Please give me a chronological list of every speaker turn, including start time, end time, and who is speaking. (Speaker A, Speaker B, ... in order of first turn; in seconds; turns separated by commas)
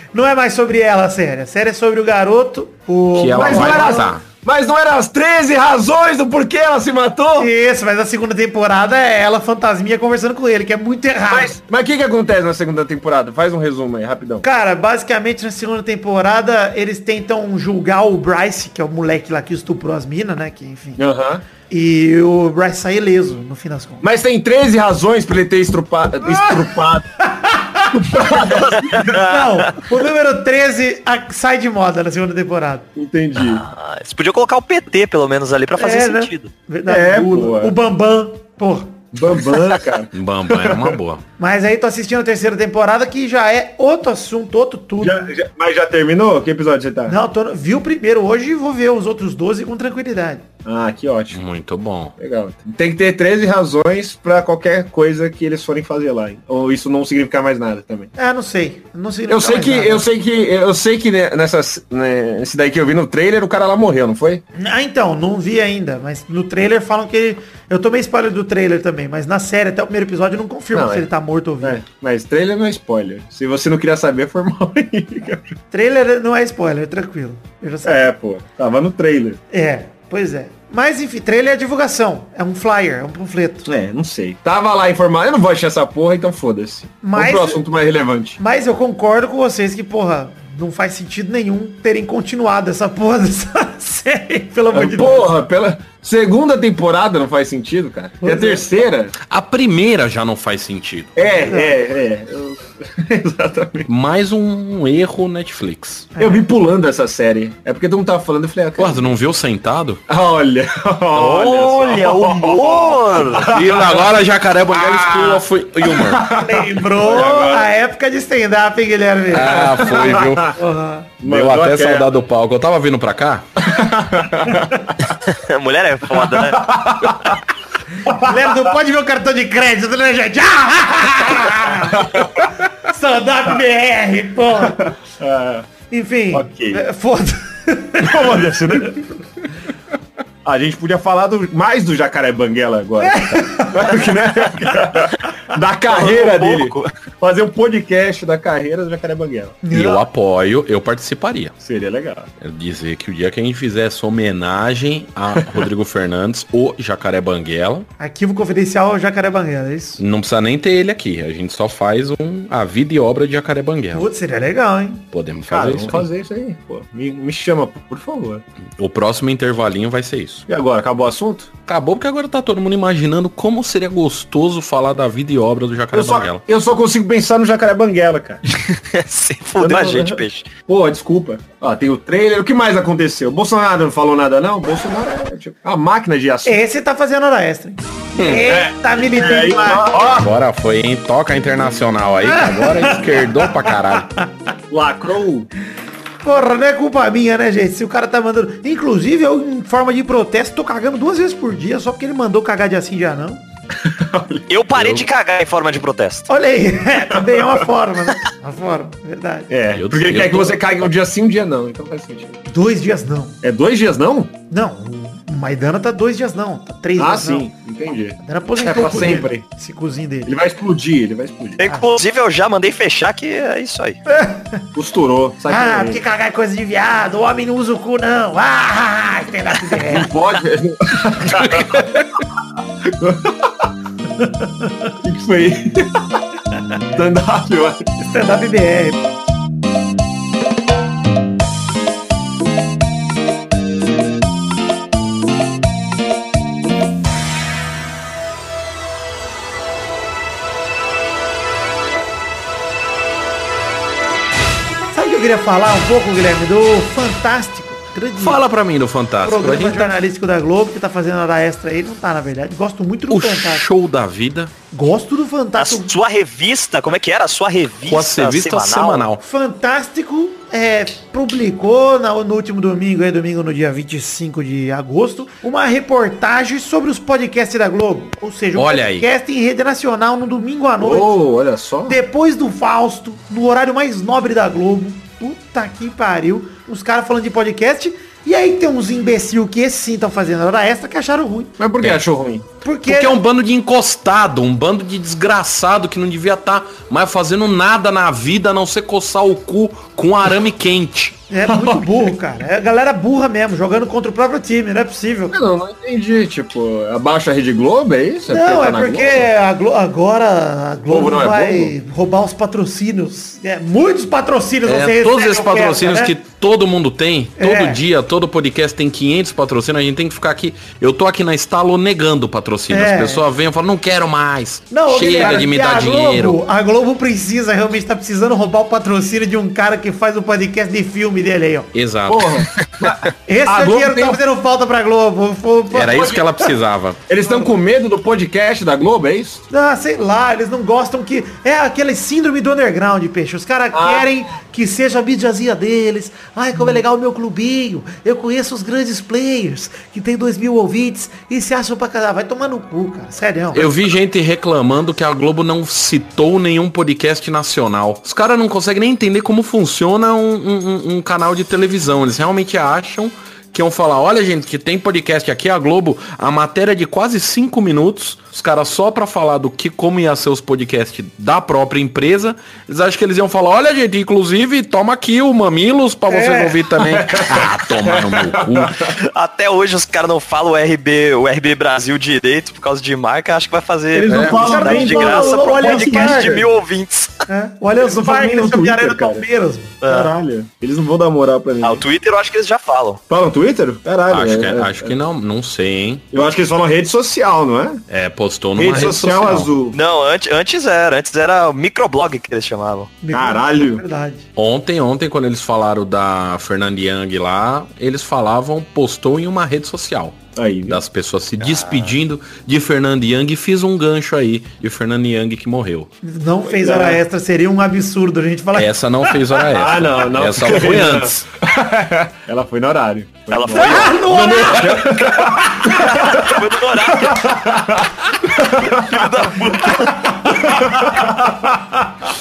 Speaker A: 0.1-4.1, Speaker B: 3.1-4.2, Speaker C: 3.4-7.5, Speaker A: 7.4-11.6, Speaker C: 11.3-14.4, Speaker A: 14.4-21.0, Speaker C: 21.0-21.4, Speaker A: 21.7-24.1, Speaker C: 24.0-27.1, Speaker A: 27.3-28.3, Speaker C: 27.9-29.7, Speaker D: 28.3-29.3, Speaker A: 29.1-32.9, Speaker C: 33.0-33.6, Speaker D: 33.4-36.5, Speaker A: 35.8-38.9, Speaker C: 36.9-37.8, Speaker C: 39.1-41.0, Speaker B: 40.1-41.2, Speaker A: 41.4-45.3, Speaker C: 45.0-47.2, Speaker A: 47.1-50.4, Speaker C: 50.6-51.4, Speaker B: 51.3-52.1, Speaker C: 52.2-58.1, Speaker A: 58.2-60.1, Speaker C: 59.3-64.4, Speaker A: 64.6-71.8, Speaker C: 70.7-71.1, Speaker C: 71.6-75.5, Speaker A: 75.7-78.1, Speaker C: 77.8-79.4, Speaker A: 79.5-83.7, Speaker C: 83.7-88.4, Speaker A: 87.0-87.6, Speaker A: 88.4-95.3, Speaker C: 94.7-99.1, Speaker A: 98.2-98.7, Speaker B: 99.3-101.3, Speaker C: 101.2-103.9, Speaker A: 101.4-101.8, Speaker B: 103.9-106.1, Speaker A: 106.2-106.5, Speaker C: 106.2-109.1, Speaker B: 108.8-110.0, Speaker C: 110.1-114.1, Speaker D: 111.1-113.6, Speaker B: 113.4-116.3, Speaker C: 114.7-117.7, Speaker A: 116.4-121.1, Speaker B: 119.3-120.5, Speaker C: 119.4-120.6, Speaker C: 121.2-122.2, Speaker B: 121.2-123.5, Speaker C: 123.6-124.9, Speaker D: 125.1-126.6, Speaker C: 126.1-127.4, Speaker A: 128.0-134.9, Speaker C: 128.0-128.8, Speaker C: 131.8-132.5, Speaker C: 134.6-135.7, Speaker A: 135.9-138.4, Speaker C: 136.3-136.9, Speaker C: 138.0-139.1, Speaker C: 140.4-149.6, Speaker A: 143.0-144.8, Speaker D: 145.9-146.9, Speaker A: 149.6-150.0, Speaker B: 149.7-151.6, Speaker C: 151.6-152.3, Speaker B: 152.4-157.9, Speaker A: 158.0-160.0, Speaker B: 160.0-164.1, Speaker A: 163.9-165.1, Speaker B: 165.1-166.1, Speaker C: 165.4-168.4, Speaker B: 168.8-170.4, Speaker C: 170.5-171.5, Speaker B: 171.6-176.4, Speaker C: 175.9-178.4, Speaker D: 178.5-180.5, Speaker C: 179.6-186.6, Speaker A: 186.4-190.2, Speaker B: 188.2-188.5, Speaker C: 188.2-190.3, Speaker B: 190.2-194.1, Speaker A: 192.2-194.3, Speaker C: 194.7-195.5, Speaker A: 196.2-203.4, Speaker C: 203.8-204.6, Speaker D: 204.5-206.3, Speaker B: 204.8-205.0, Speaker A: 206.3-209.5, Speaker C: 207.1-207.6, Speaker C: 209.5-212.4, Speaker B: 209.7-210.8, Speaker A: 212.5-213.4, Speaker C: 213.4-214.3, Speaker A: 214.5-217.5, Speaker C: 217.0-219.4, Speaker A: 218.2-220.4, Speaker C: 220.2-221.6, Speaker D: 221.6-224.0, Speaker A: 224.1-224.6, Speaker C: 224.8-226.0, Speaker A: 225.5-230.1, Speaker C: 229.8-232.0, Speaker C: 232.8-233.7, Speaker A: 234.2-234.7, Speaker C: 235.0-235.9, Speaker C: 236.9-237.9, Speaker A: 238.0-239.0, Speaker A: 254.9-258.4, Speaker B: 258.2-260.0, Speaker A: 259.2-263.6, Speaker B: 263.1-264.5, Speaker A: 264.7-265.9, Speaker D: 265.6-269.1, Speaker B: 267.9-269.2, Speaker A: 269.2-281.1, Speaker B: 278.6-279.1, Speaker C: 280.8-282.0, Speaker A: 281.9-291.6, Speaker C: 291.6-292.5, Speaker A: 292.6-293.2, Speaker B: 292.9-301.1, Speaker A: 301.3-305.4, Speaker C: 301.5-302.1, Speaker C: 305.3-309.3, Speaker A: 308.3-316.1, Speaker C: 310.9-311.7, Speaker B: 314.6-326.4, Speaker A: 317.4-317.8, Speaker A: 322.7-323.2, Speaker A: 324.7-331.7, Speaker B: 331.7-332.5, Speaker C: 332.1-334.2, Speaker A: 333.3-336.2, Speaker B: 335.7-337.0, Speaker C: 337.1-339.4, Speaker A: 339.5-353.7, Speaker C: 343.7-344.1, Speaker B: 353.5-378.9, Speaker A: 376.1-376.6, Speaker C: 376.8-378.9, Speaker D: 379.0-387.1, Speaker C: 383.9-386.5, Speaker B: 384.1-384.4, Speaker A: 384.3-386.4, Speaker A: 387.3-390.1, Speaker C: 387.8-389.3, Speaker D: 389.8-390.1, Speaker C: 389.8-391.8, Speaker D: 391.6-393.0, Speaker C: 393.1-395.0, Speaker B: 394.1-396.1, Speaker C: 396.1-397.8, Speaker B: 397.9-399.5, Speaker C: 398.6-399.8, Speaker D: 399.7-402.9, Speaker A: 403.0-404.3, Speaker C: 403.1-403.8, Speaker B: 404.4-415.9, Speaker C: 410.4-410.8, Speaker D: 411.4-411.9, Speaker A: 416.0-418.7, Speaker C: 416.5-417.0, Speaker B: 418.5-421.3, Speaker C: 419.5-429.1, Speaker D: 423.3-427.4, Speaker A: 423.5-425.7, Speaker D: 428.3-430.6, Speaker A: 430.0-431.0, Speaker C: 430.4-431.6